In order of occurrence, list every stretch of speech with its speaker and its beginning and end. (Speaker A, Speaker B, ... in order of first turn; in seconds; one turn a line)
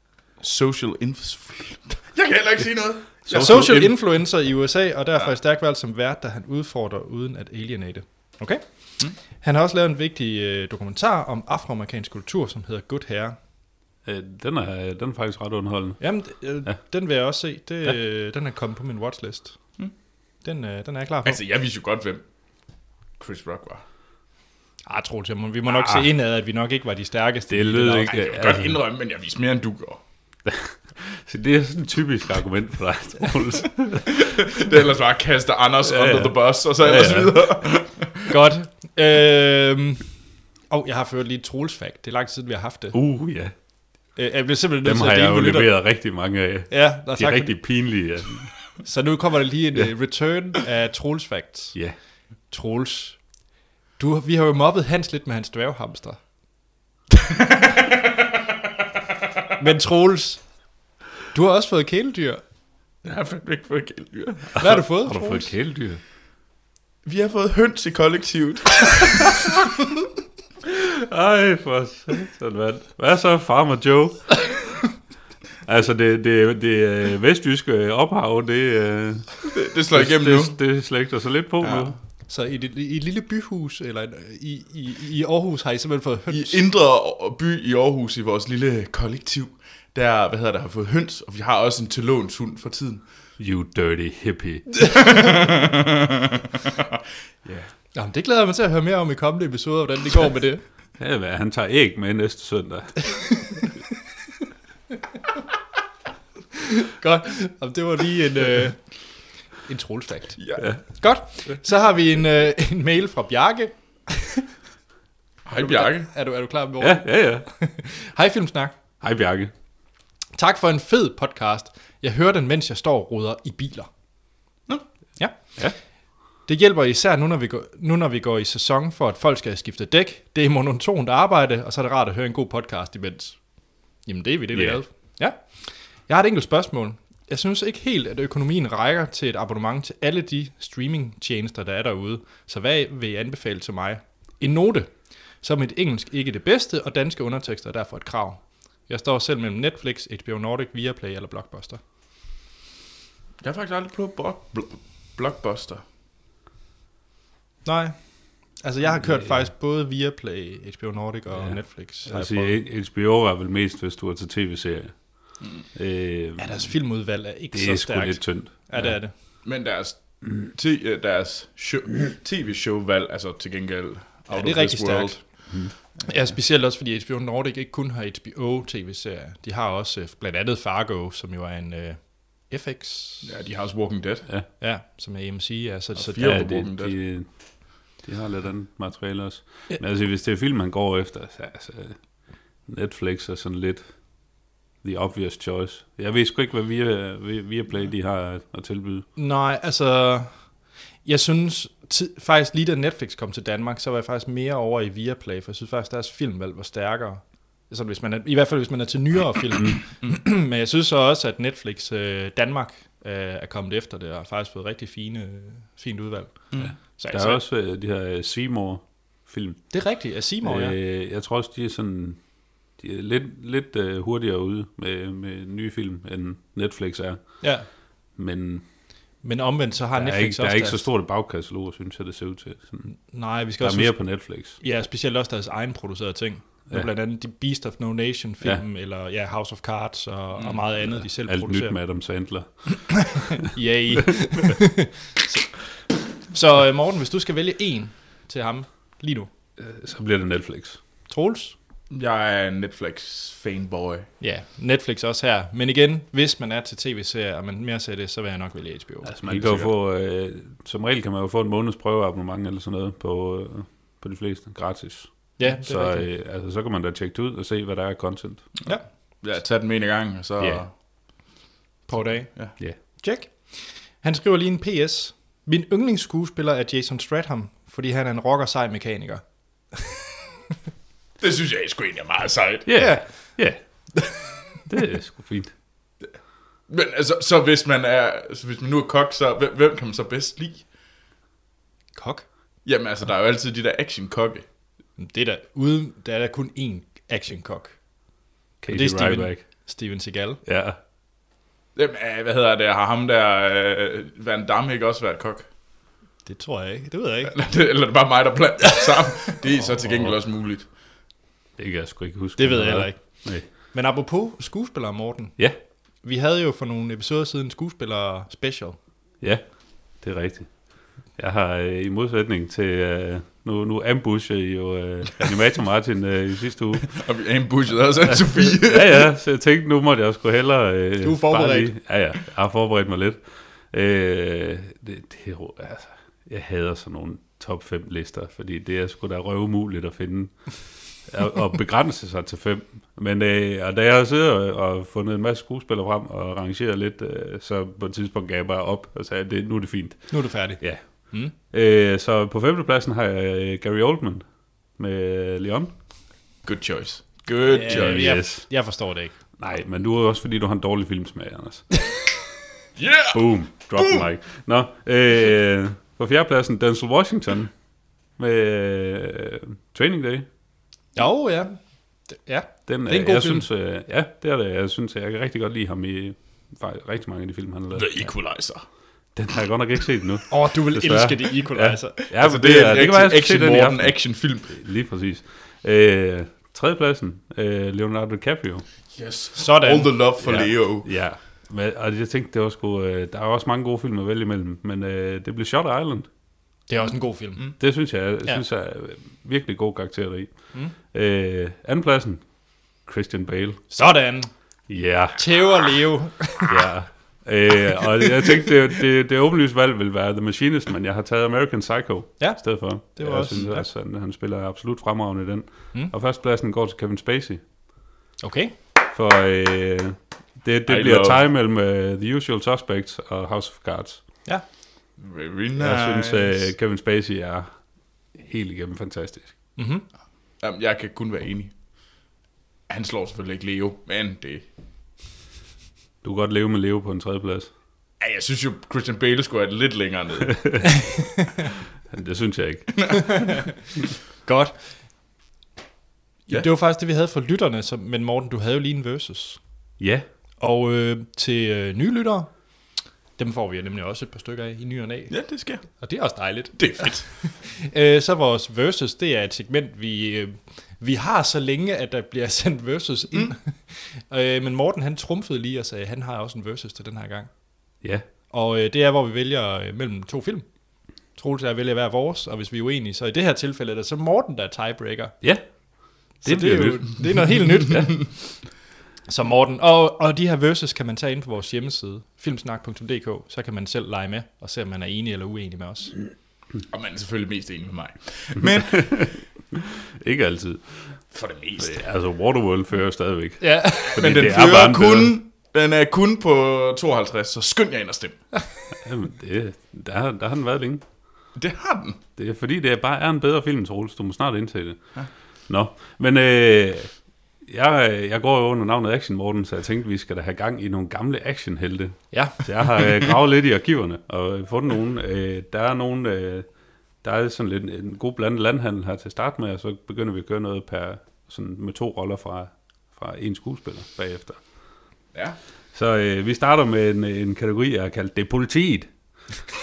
Speaker A: 0.4-3.3
Speaker B: 3.2-4.0
Speaker C: 3.3-13.4
Speaker B: 14.0-16.0
Speaker C: 16.0-19.6
Speaker C: 20.4-21.4
Speaker A: 21.2-22.2
Speaker A: 23.2-23.8
Speaker C: 24.9-28.1
Speaker B: 27.5-28.8
Speaker A: 28.1-30.0
Speaker B: 30.4-34.3
Speaker A: 34.1-38.3
Speaker B: 35.8-37.4
Speaker C: 38.3-40.1
Speaker C: 40.7-43.0
Speaker B: 42.9-43.5
Speaker C: 44.1-45.7
Speaker B: 44.8-48.5
Speaker C: 46.7-47.6
Speaker C: 48.8-51.8
Speaker C: 52.5-53.4
Speaker C: 54.0-56.2
Speaker C: 59.6-60.4
Speaker C: 61.3-62.4
Speaker A: 63.0-64.7
Speaker C: 64.6-65.5
Speaker B: 64.6-66.0
Speaker A: 67.0-69.7
Speaker B: 70.7-74.8
Speaker B: 75.6-81.9
Speaker A: 79.5-80.6
Speaker A: 81.6-81.9
Speaker C: 82.3-86.6
Speaker A: 86.3-93.0
Speaker B: 93.4-94.7
Speaker A: 94.9-96.1
Speaker A: 97.4-97.7
Speaker C: 97.9-100.6
Speaker B: 101.0-103.4
Speaker C: 106.7-109.0
Speaker C: 109.6-114.5
Speaker A: 110.4-110.7
Speaker A: 115.5-116.1
Speaker C: 115.5-118.7
Speaker B: 116.8-117.5
Speaker B: 119.0-119.5
Speaker C: 120.3-123.9
Speaker C: 125.2-125.6
Speaker C: 126.5-151.8
Speaker B: 134.5-134.8
Speaker A: 153.4-155.8
Speaker C: 157.6-162.6
Speaker B: 161.3-166.7
Speaker C: 166.4-169.1
Speaker B: 167.5-169.0
Speaker A: 169.4-175.4
Speaker C: 174.3-183.3
Speaker A: 183.2-184.3
Speaker C: 184.6-186.4
Speaker A: 185.9-187.0
Speaker B: 186.2-192.0
Speaker B: 192.7-193.9
Speaker B: 194.8-199.1
Speaker C: 199.2-217.4
Speaker B: 216.6-219.8
Speaker C: 219.7-220.8
Speaker B: 220.4-222.2
Speaker B: 222.8-227.5
Speaker C: 227.4-227.7
Speaker B: 228.2-228.6
Speaker C: 229.2-230.9
Speaker B: 229.9-232.9
Speaker C: 232.8-241.8
Speaker B: 233.6-234.6
Speaker B: 240.8-243.4
Speaker C: 243.1-249.3
Speaker B: 249.6-250.8
Speaker C: 251.1-251.5
Speaker A: 251.9-254.1
Speaker C: 254.2-259.1
Speaker B: 259.0-268.6
Speaker A: 259.2-259.7
Speaker C: 265.4-266.1
Speaker A: 268.6-270.7
Speaker B: 270.4-270.6
Speaker C: 271.9-280.0
Speaker A: 281.2-282.7
Speaker B: 282.6-284.1
Speaker C: 282.8-283.4
Speaker B: 284.6-285.5
Speaker A: 286.7-290.7
Speaker C: 291.9-292.3
Speaker A: 292.6-294.4
Speaker C: 295.0-297.8
Speaker B: 298.6-299.4
Speaker C: 298.7-300.4
Speaker B: 300.4-300.8
Speaker A: 301.7-305.5
Speaker C: 306.2-307.3
Speaker A: 307.3-310.7
Speaker B: 311.6-313.4
Speaker C: 312.4-315.4
Speaker C: 316.0-318.8
Speaker B: 319.2-326.9
Speaker A: 326.9-329.1
Speaker B: 328.4-355.7
Speaker C: 331.0-331.7
Speaker C: 350.1-351.3
Speaker A: 356.4-358.2
Speaker C: 357.5-359.1
Speaker B: 357.7-358.5
Speaker B: 359.4-361.8
Speaker A: 362.8-364.1
Speaker B: 363.1-367.5
Speaker B: 368.2-370.2
Speaker C: 370.9-371.6
Speaker C: 372.1-373.4
Speaker B: 372.7-378.1
Speaker A: 377.7-378.6
Speaker B: 379.1-388.6
Speaker C: 380.3-382.0
Speaker A: 382.1-384.6
Speaker A: 388.9-390.9
Speaker C: 389.4-389.9
Speaker B: 390.2-396.1
Speaker C: 396.7-397.6
Speaker B: 397.6-400.3
Speaker B: 400.9-402.2
Speaker B: 402.8-403.6
Speaker C: 403.7-404.3
Speaker B: 404.7-405.2
Speaker C: 405.1-406.6
Speaker B: 406.5-417.4
Speaker C: 407.8-408.5
Speaker C: 412.2-413.7
Speaker C: 418.2-418.5
Speaker B: 418.9-424.0
Speaker A: 420.7-421.2
Speaker A: 425.0-426.5
Speaker B: 425.6-427.5
Speaker B: 428.1-429.4
Speaker C: 429.6-429.8
Speaker A: 430.4-431.5
Speaker A: 432.7-434.4
Speaker B: 436.0-437.5
Speaker A: 438.0-440.5
Speaker C: 440.9-441.1
Speaker B: 441.9-442.9
Speaker A: 442.9-443.1
Speaker C: 444.2-444.6
Speaker C: 446.3-449.4
Speaker B: 449.8-450.1
Speaker C: 450.4-452.3
Speaker C: 453.2-467.3
Speaker A: 455.1-455.8
Speaker A: 456.5-457.1
Speaker C: 468.3-470.5
Speaker C: 471.1-475.1
Speaker B: 476.0-477.9
Speaker C: 476.2-478.2
Speaker C: 479.1-485.9
Speaker A: 486.7-489.2
Speaker B: 488.4-491.0
Speaker A: 491.1-491.8
Speaker B: 491.6-495.1
Speaker C: 493.4-494.3
Speaker A: 493.9-498.2
Speaker B: 498.8-500.8
Speaker A: 501.3-502.0
Speaker B: 502.2-504.8
Speaker B: 505.5-516.5
Speaker C: 512.1-512.4
Speaker B: 517.0-524.4
Speaker B: 525.7-528.9